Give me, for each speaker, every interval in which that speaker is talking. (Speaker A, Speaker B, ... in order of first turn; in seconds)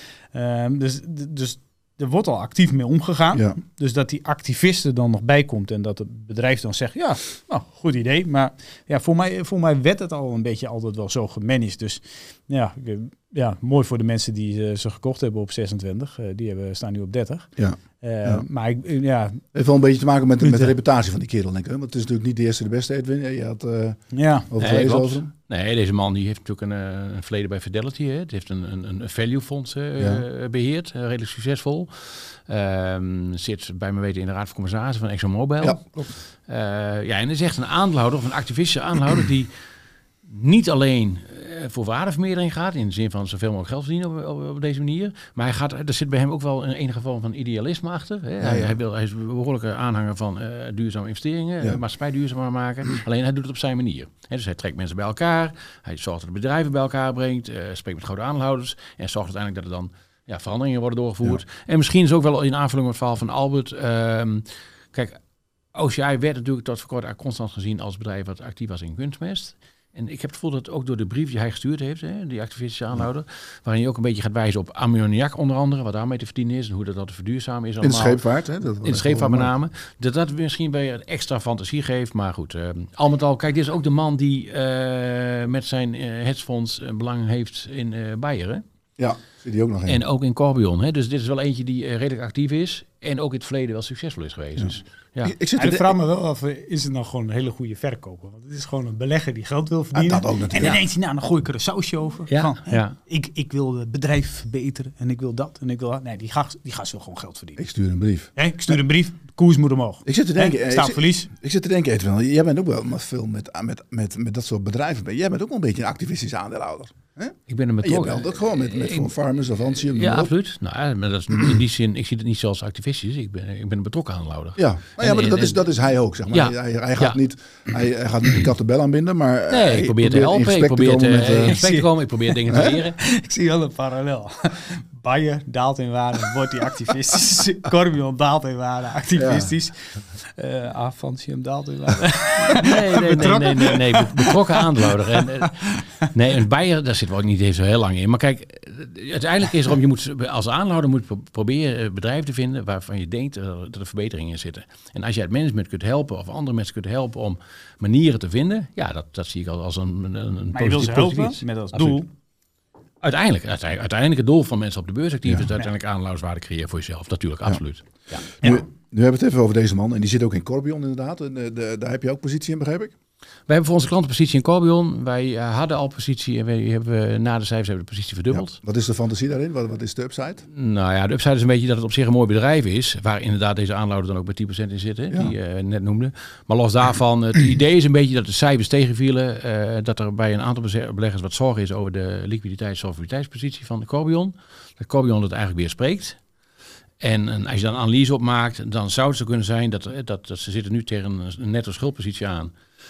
Speaker A: 0.3-19.4, 20.4-20.7, 24.1-24.5, 95.5-107.6, 108.3-111.3, 131.4-145.7, 160.5-162.1
Speaker B: 17.6-18.4, 19.5-25.3, 30.0-30.2, 35.6-36.1, 48.4-48.8, 77.8-79.5, 89.0-90.0, 95.2-95.9, 99.9-100.8, 107.6-108.8, 110.0-120.3, 124.6-131.6, 132.5-132.7, 139.2-139.5, 168.4-172.9, 178.3-180.4
Speaker C: 24.6-39.5, 40.2-65.2, 65.7-78.2, 78.8-88.6, 89.8-95.3, 102.3-102.9, 117.5-119.1, 119.8-125.6, 126.3-127.2, 129.5-133.0, 142.6-162.0, 163.0-168.2, 173.5-178.6, 180.5-196.2, 197.0-202.5